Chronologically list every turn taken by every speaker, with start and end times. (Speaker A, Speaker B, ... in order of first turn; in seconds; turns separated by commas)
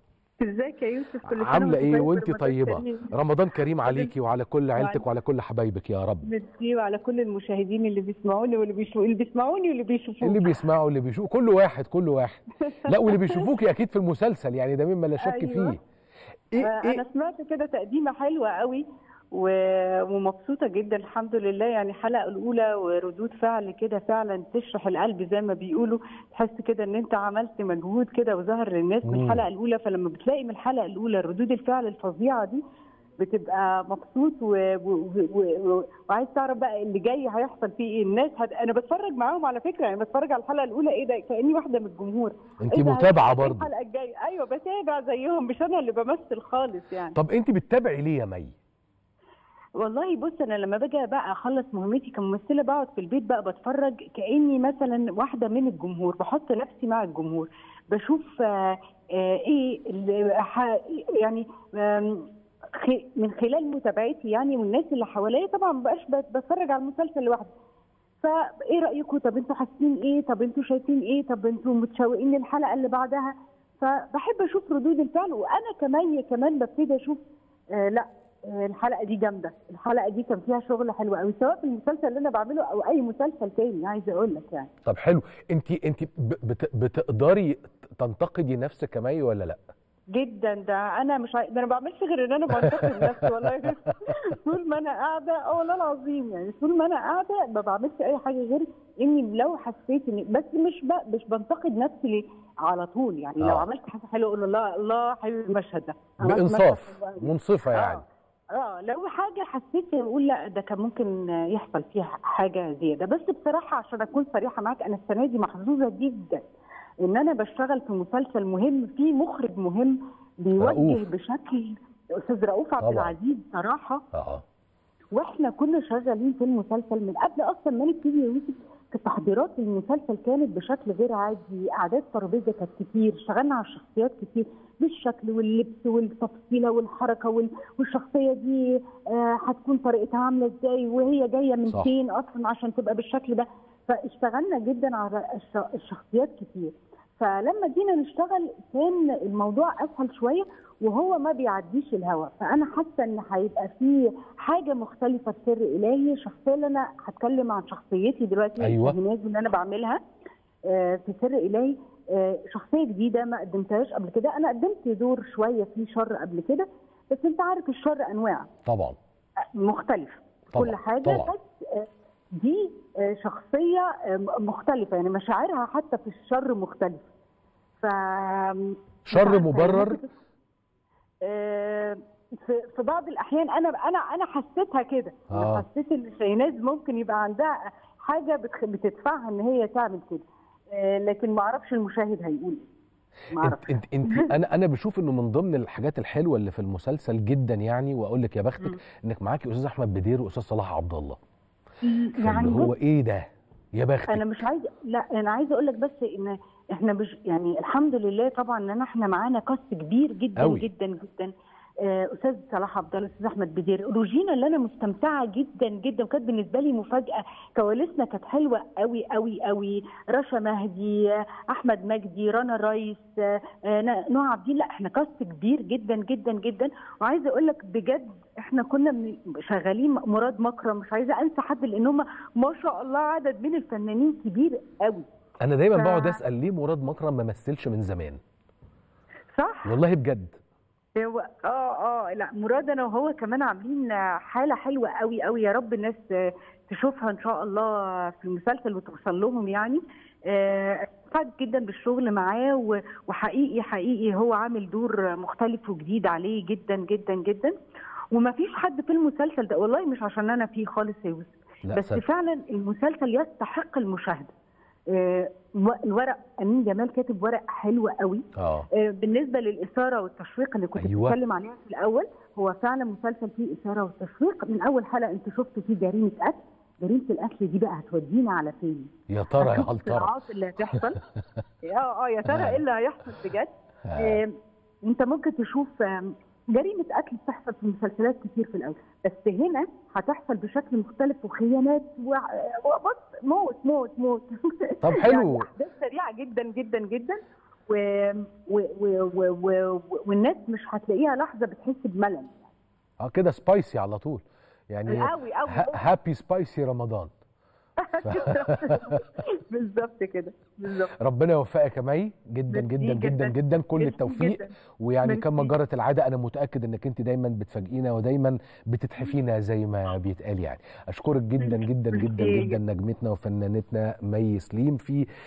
Speaker A: 0.4-3.1, Speaker B: 1.3-6.3, Speaker A: 3.8-4.1, Speaker A: 4.8-5.0, Speaker A: 6.2-10.6, Speaker B: 10.2-15.8, Speaker A: 12.8-13.4, Speaker A: 15.2-15.8, Speaker B: 16.5-17.0, Speaker A: 16.6-32.6, Speaker B: 29.0-29.4, Speaker A: 33.2-47.2, Speaker B: 42.6-43.7, Speaker B: 47.1-48.5, Speaker A: 49.8-67.5, Speaker A: 68.2-77.2, Speaker A: 77.7-84.7, Speaker B: 84.8-89.6, Speaker A: 90.1-116.5, Speaker B: 103.4-103.6, Speaker B: 106.2-108.0, Speaker A: 117.0-124.0, Speaker B: 120.6-121.0, Speaker B: 122.8-123.1, Speaker B: 124.1-124.4, Speaker A: 125.1-160.0, Speaker B: 158.6-159.0, Speaker A: 160.6-168.5, Speaker B: 168.6-169.0, Speaker A: 169.6-177.1, Speaker B: 170.5-171.3, Speaker A: 177.8-180.1, Speaker B: 179.1-180.0, Speaker A: 181.2-192.6, Speaker B: 185.3-185.6, Speaker A: 193.3-194.3, Speaker B: 193.4-201.2, Speaker A: 201.8-202.7, Speaker B: 202.2-204.3, Speaker A: 204.1-211.3, Speaker B: 210.4-210.7, Speaker A: 211.8-235.0, Speaker B: 235.4-238.2, Speaker A: 235.7-236.2, Speaker A: 239.3-239.8, Speaker B: 239.6-240.4, Speaker A: 240.9-257.5, Speaker A: 258.1-264.3, Speaker B: 261.7-262.0, Speaker A: 264.9-281.0, Speaker B: 268.4-268.7, Speaker B: 270.8-271.2, Speaker B: 279.1-280.1, Speaker A: 281.6-284.3, Speaker B: 282.2-282.6, Speaker B: 283.9-284.2, Speaker A: 284.8-302.3, Speaker B: 294.8-295.5, Speaker B: 303.0-307.1, Speaker A: 304.9-305.8, Speaker A: 307.8-310.9, Speaker B: 308.0-309.0, Speaker B: 311.0-325.0, Speaker A: 312.5-315.5, Speaker A: 321.4-322.6